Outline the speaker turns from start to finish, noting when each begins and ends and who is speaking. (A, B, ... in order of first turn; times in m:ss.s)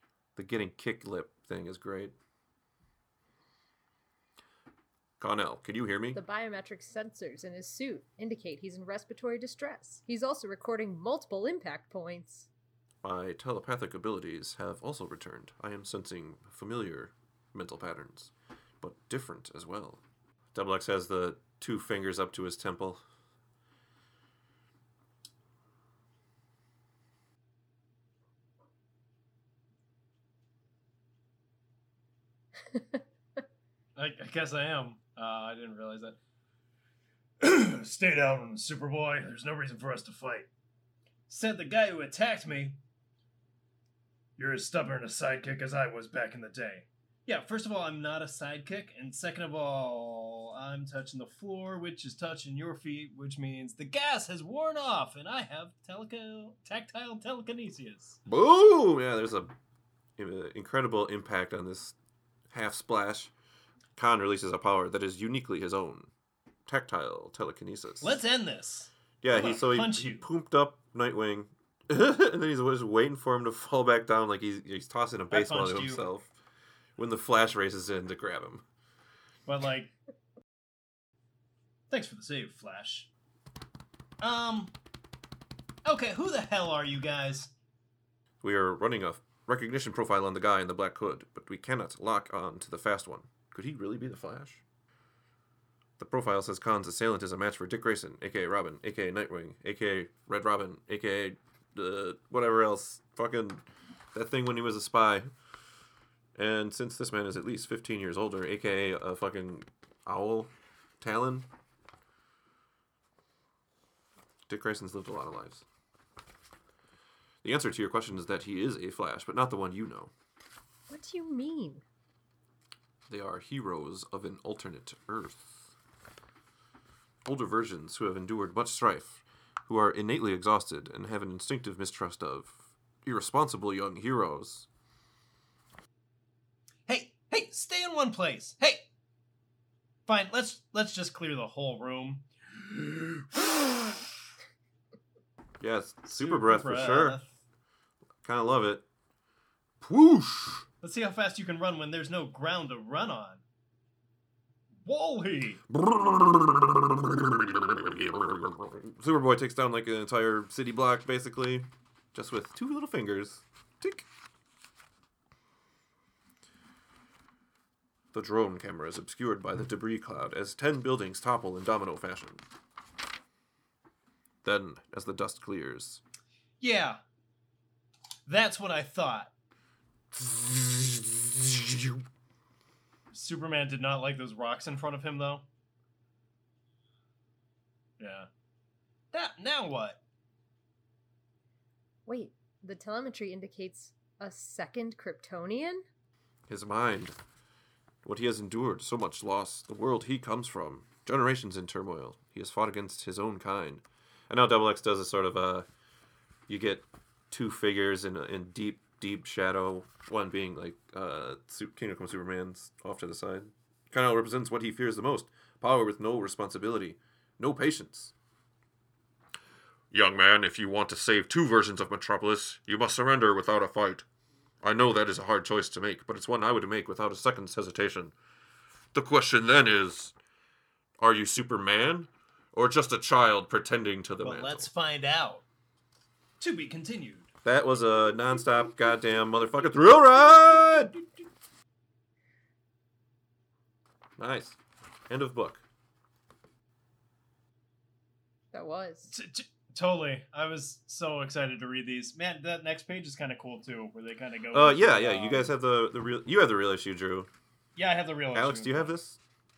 0:00.4-0:02.1 A
0:05.2-0:06.2 A
0:06.1-0:12.5 B
0:13.0-0:20.0 A
0:20.5-0:23.0 A
0:34.0-0:36.2 C
0:37.4-0:40.5 C
0:41.3-0:42.8 C
0:44.4-0:58.2 C
0:58.2-0:59.5 A
1:00.2-1:02.0 A
1:02.5-1:03.3 A
1:04.0-1:06.1 A
1:06.7-1:08.2 A
1:08.0-1:10.2 C
1:09.2-1:16.3 A
1:15.3-1:16.0 C
1:17.0-1:18.6 A
1:19.4-1:19.9 C
1:21.9-1:23.1 C
1:24.2-1:24.7 C
1:25.8-1:27.5 C
1:28.4-1:34.6 A
1:36.0-1:45.3 A
1:46.4-1:51.5 A
1:54.5-1:55.6 A
1:57.4-2:00.1 A
2:00.9-2:01.8 B
2:03.1-2:05.7 A
2:07.2-2:14.7 A
2:16.9-2:18.8 C
2:20.1-2:24.0 C
2:25.6-2:27.2 A
2:26.0-2:27.3 C
2:28.2-2:28.8 A
2:29.8-2:30.6 A
2:30.8-2:33.4 C
2:34.8-2:35.6 C
2:35.7-2:44.1 A
2:48.1-2:52.4 A
2:54.4-2:56.0 A
2:56.6-2:57.0 C
2:58.3-2:59.3 C
3:00.1-3:02.0 A
3:03.1-3:05.4 C
3:08.0-3:08.3 C
3:09.1-3:10.0 C
3:12.0-3:15.8 B
3:16.5-3:17.1 A
3:18.0-3:25.7 A
3:26.5-3:38.1 A
3:39.9-3:44.0 A
3:44.6-3:48.1 A
3:48.9-3:50.1 A
3:51.0-3:54.7 A
3:54.2-3:55.4 C
3:56.4-3:57.3 C
3:57.4-4:00.9 A
4:04.2-4:04.6 A
4:05.1-4:05.6 A
4:08.5-4:09.1 B
4:09.1-4:15.5 C
4:14.5-4:17.3 A
4:17.8-4:18.9 C
4:18.3-4:19.2 A